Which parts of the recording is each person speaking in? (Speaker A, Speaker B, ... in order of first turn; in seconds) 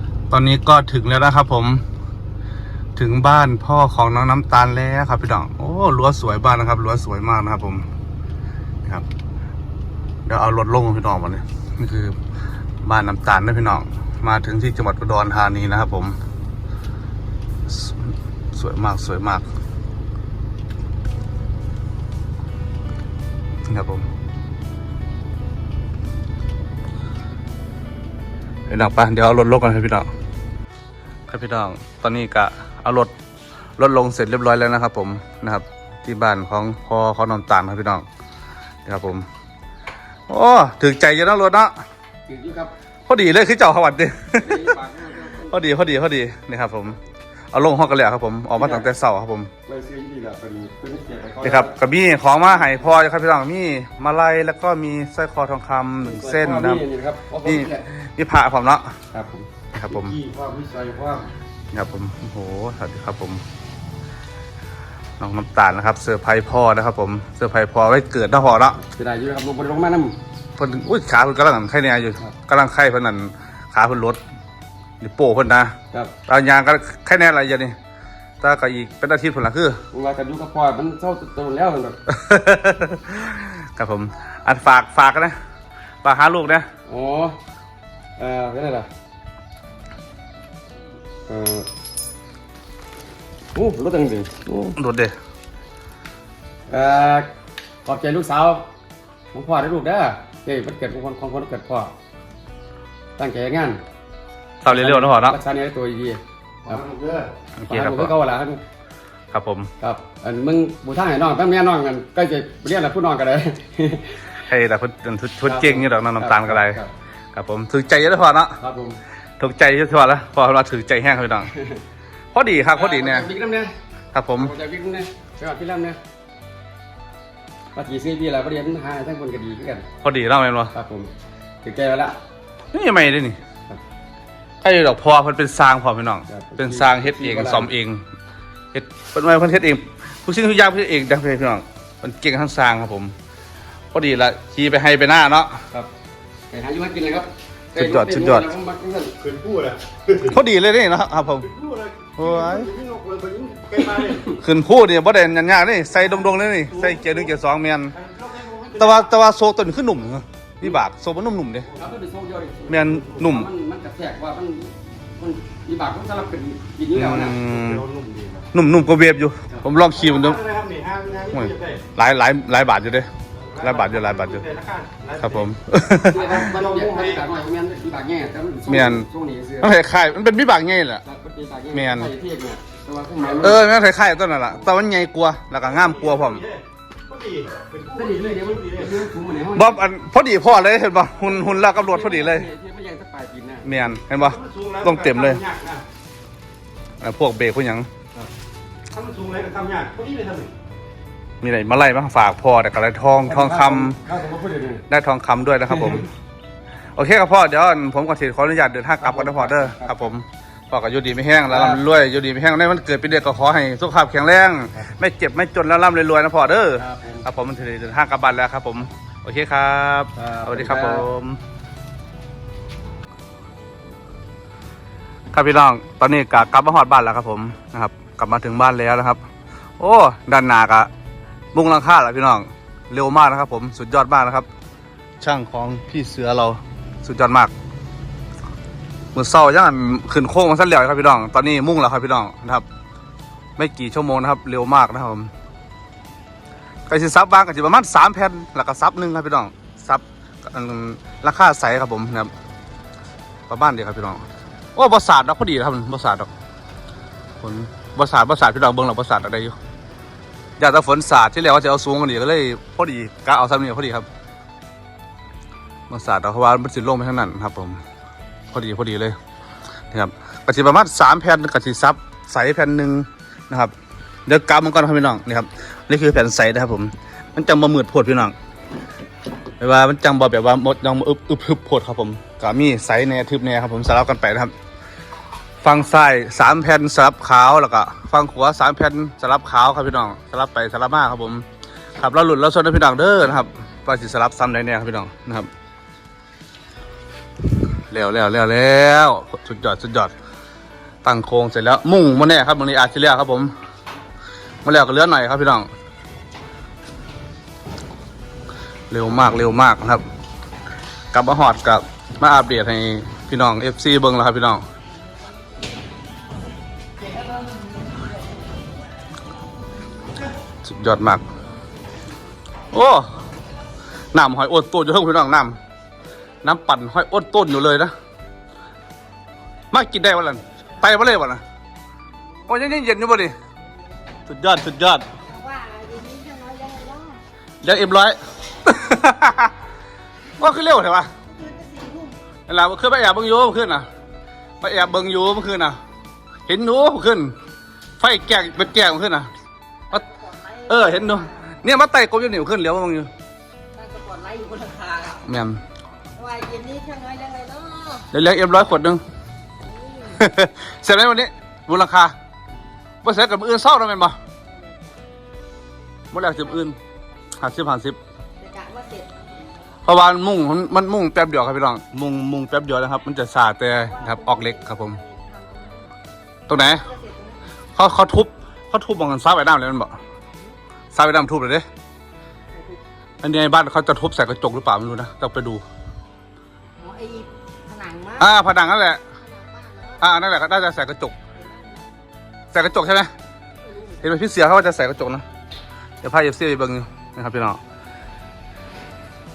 Speaker A: 0.3-1.8, 3.0-7.9, 10.2-12.2, 12.8-16.2, 17.7-19.4, 23.7-24.1, 28.7-30.1, 31.3-33.1, 33.8-38.0, 38.8-39.3, 40.3-41.7, 43.1-44.8, 45.5-47.0, 47.5-49.5, 51.4-56.8, 57.4-58.9, 59.7-60.2, 61.7-63.4, 65.2-68.8, 70.6-74.2, 75.0-75.8, 76.3-77.8, 78.4-79.8, 82.1-85.4, 86.0-86.7, 94.8-95.2, 104.6-105.4, 107.6-108.1, 109.3-109.7, 114.5-116.8, 117.3-118.6, 119.4-121.5, 122.3-123.3, 124.1-124.5, 130.0-130.7, 132.7-133.4, 134.6-138.0, 138.7-143.1, 143.9-145.6, 147.8-148.5, 150.2-151.6, 152.2-152.7, 154.3-157.9, 158.7-161.7, 162.7-163.5, 166.9-167.9, 168.5-170.4, 171.3-174.5, 175.2-176.5, 178.7-179.1, 179.6-181.0, 181.7-182.1, 183.4-186.4, 189.5-192.5, 193.6-195.4, 197.0-197.9, 201.4-204.0, 204.9-206.1, 206.9-221.4, 225.3-229.2, 229.8-230.9, 231.5-234.5, 235.2-237.5, 239.1-242.7, 243.6-245.3, 246.9-252.3, 253.5-254.2, 254.8-256.3, 257.4-259.6, 260.6-264.1, 265.9-267.8, 268.5-269.1, 269.9-273.7, 274.2-278.3, 279.6-284.5, 285.6-291.4, 292.0-295.5, 297.9-300.1, 301.0-303.5, 304.6-305.7, 308.9-310.0, 311.1-314.6, 320.6-321.2, 322.7-323.1, 324.1-325.6, 326.4-327.9, 329.7-331.4, 332.5-333.3, 334.2-335.0, 337.6-339.5, 340.4-341.1, 342.5-343.9, 344.6-345.8, 346.5-347.3, 348.0-349.3, 350.7-353.1, 355.2-355.6, 358.1-359.0, 360.1-362.1, 363.0-364.2, 366.1-366.8, 367.4-368.0, 369.8-375.0, 376.5-376.9, 377.8-380.0, 380.9-381.6, 383.2-385.6, 388.2-389.0, 390.0-391.1, 392.5-393.1, 394.0-395.2, 396.0-397.6
Speaker B: 42.2-42.7, 44.3-45.6, 48.6-48.9, 49.7-51.8, 56.0-57.9, 59.1-59.5, 60.2-61.3, 68.8-70.2, 79.9-82.0, 86.9-87.4, 88.2-88.9, 91.3-91.7, 93.5-94.8, 96.7-97.3, 97.8-98.7, 99.3-101.9, 103.2-103.8, 104.7-106.9, 107.7-108.6, 109.8-114.2, 115.4-116.9, 118.6-119.0, 122.7-123.7, 124.4-126.0, 127.7-129.9, 130.7-131.1, 131.6-132.2, 136.3-137.7, 146.5-149.4, 161.8-167.4, 176.0-179.8, 181.1-183.7, 187.9-189.8, 191.2-194.0, 203.2-204.8, 205.7-206.0, 209.0-210.1, 211.5-211.8, 216.8-217.2, 220.2-221.1
Speaker C: 60.2-60.5, 106.8-107.3, 149.3-150.2, 151.5-154.3, 156.8-157.1, 158.0-158.9, 167.6-168.4, 170.0-171.8, 173.5-175.4, 176.4-177.2, 185.8-188.8, 194.2-195.8, 198.9-200.5
Speaker D: 335.2-337.2, 341.2-342.2, 349.9-351.4, 353.7-355.2, 356.1-358.1, 359.6-360.3, 364.5-364.9, 368.4-369.1, 373.8-375.9, 376.5-377.4, 386.8-388.3, 389.2-390.1, 391.4-391.8